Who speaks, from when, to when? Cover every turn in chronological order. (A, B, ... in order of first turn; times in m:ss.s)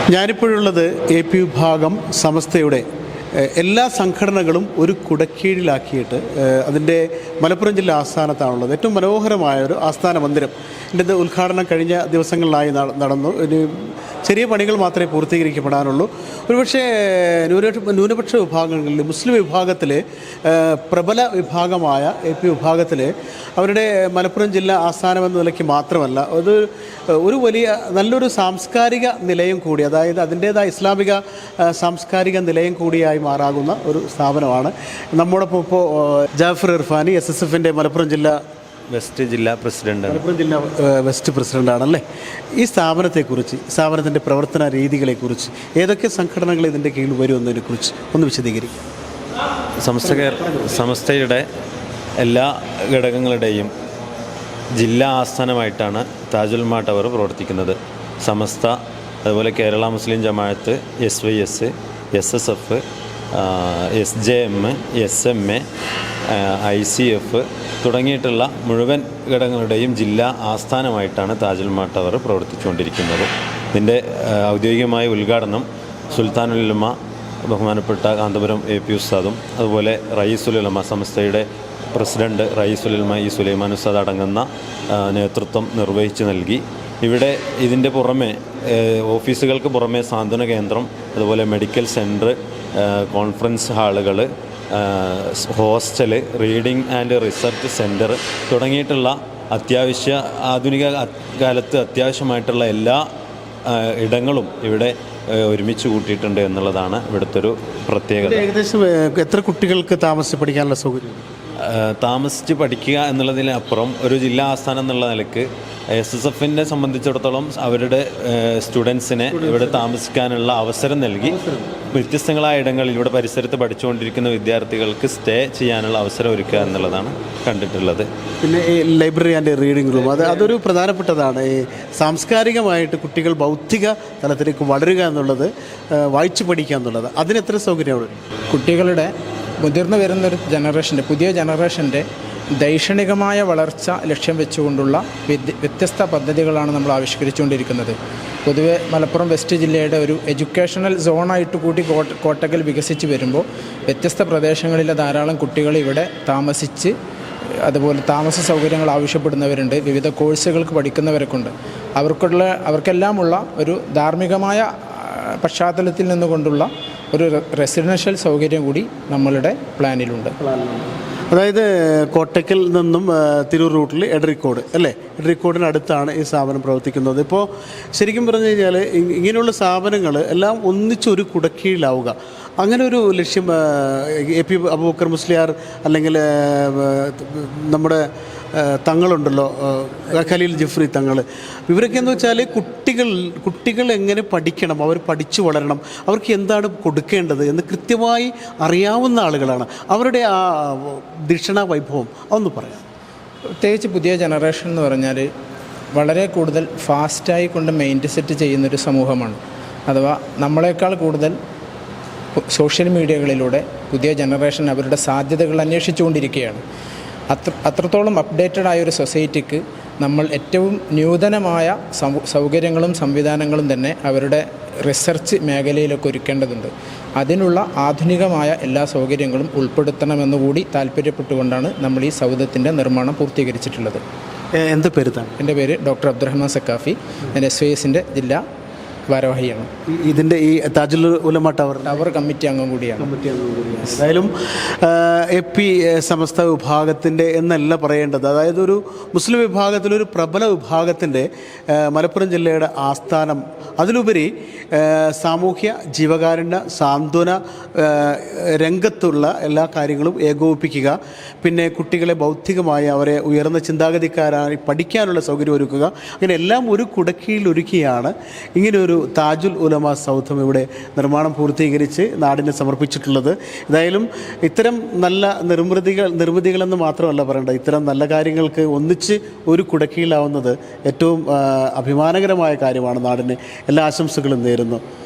0:00.1-0:02.8 A
0:03.4-0:13.7 A
0:14.2-0:38.4 A
0:38.9-0:40.2 B
0:40.1-0:42.0 A
0:42.6-0:48.8 A
0:49.8-0:51.4 B
0:52.2-0:53.7 B
0:54.8-1:02.8 B
1:03.3-1:05.6 B
1:06.3-1:16.9 B
1:17.5-1:43.0 B
1:43.6-1:48.5 B
1:48.2-1:51.3 A
1:51.6-2:01.4 B
2:01.2-2:01.7 A
2:01.9-2:08.1 B
2:08.4-2:18.2 A
2:18.5-2:22.0 C
2:22.6-2:36.9 C
2:37.4-2:50.3 C
2:50.4-3:08.0 A
3:08.5-3:22.8 A
3:23.6-3:25.3 C
3:25.9-3:31.4 C
3:32.5-3:36.6 C
3:37.3-3:54.0 C
3:54.6-3:55.3 A
3:55.4-3:58.4 C
3:59.1-3:59.7 C
3:59.9-4:02.0 A
4:01.8-4:03.1 C
4:03.0-4:44.8 A